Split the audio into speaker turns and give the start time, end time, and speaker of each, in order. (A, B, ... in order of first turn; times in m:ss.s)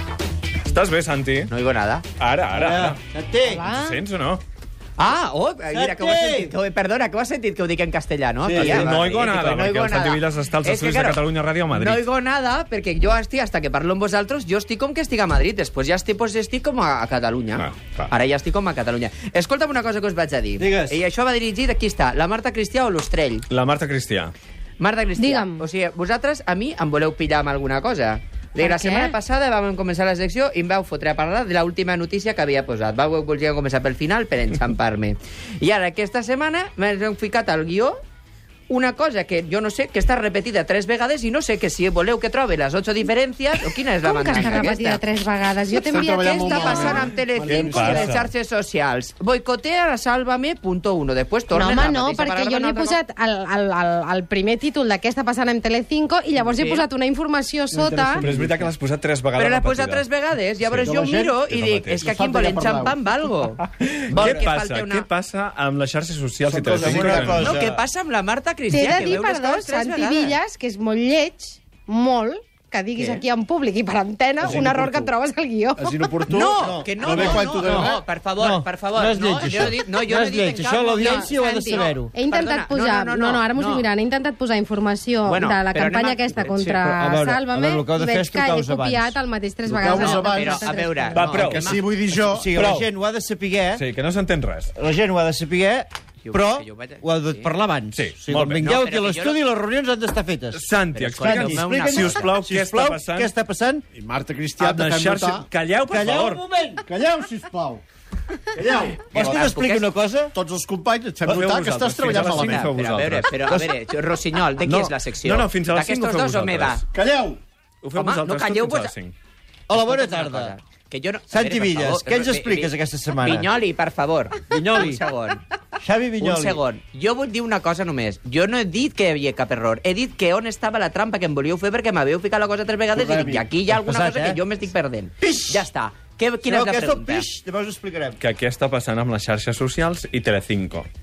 0:00.7-0:01.5 A
0:01.5-0:02.1 B
0:02.2-0:03.0 A
0:02.5-0:03.7 C
0:03.5-0:04.0 D
0:03.7-0:04.4 A
0:05.0-0:23.4 B
0:05.7-0:06.5 C
0:08.4-0:08.9 C
0:08.6-0:12.0 A
0:17.6-0:18.1 A
0:20.6-0:21.0 C
0:23.5-0:24.3 A
0:24.8-0:38.0 B
0:25.2-0:25.6 D
0:28.6-0:29.2 D
0:38.7-0:45.0 B
0:44.0-0:47.1 D
0:45.9-0:53.0 B
0:45.9-0:48.1 E
0:47.4-0:48.3 A
0:51.5-0:58.3 D
0:56.4-0:56.8 B
0:57.7-0:58.7 E
0:58.2-1:00.0 A
0:59.4-1:05.1 B
1:00.6-1:02.1 A
1:00.8-1:03.0 E
1:03.8-1:07.6 A
1:06.5-1:07.8 C
1:06.8-1:10.4 B
1:08.7-1:16.2 D
1:14.4-1:14.9 E
1:14.5-1:15.0 C
1:15.8-1:18.0 E
1:16.3-1:23.9 B
1:16.3-1:22.1 C
1:19.4-1:19.7 E
1:21.0-1:31.5 D
1:25.3-1:26.8 B
1:26.7-1:29.2 C
1:29.7-1:30.7 E
1:30.0-1:31.8 B
1:31.1-1:31.8 A
1:31.4-1:32.6 E
1:32.2-1:33.8 C
1:32.5-1:32.9 A
1:33.8-1:34.7 A
1:34.7-1:40.6 C
1:36.2-1:37.6 B
1:37.9-1:38.8 A
1:38.6-1:39.4 B
1:40.5-1:43.3 A
1:40.9-1:42.3 B
1:41.2-1:43.8 C
1:43.9-1:45.5 E
1:44.6-1:46.4 A
1:45.9-1:46.9 C
1:46.9-1:47.8 E
1:48.6-1:49.0 E
1:48.6-1:50.3 C
1:49.1-1:49.9 B
1:50.3-1:52.7 E
1:51.2-1:53.7 A
1:52.0-1:56.8 B
1:54.6-1:56.8 A
1:56.9-1:57.4 E
1:57.8-1:59.2 A
1:58.0-1:58.9 B
1:59.7-2:00.5 C
1:59.7-2:05.4 B
2:01.3-2:03.5 C
2:04.5-2:05.0 C
2:05.8-2:06.6 C
2:06.2-2:17.3 B
2:13.0-2:14.4 C
2:15.2-2:15.7 C
2:16.4-2:18.2 C
2:18.2-2:20.9 A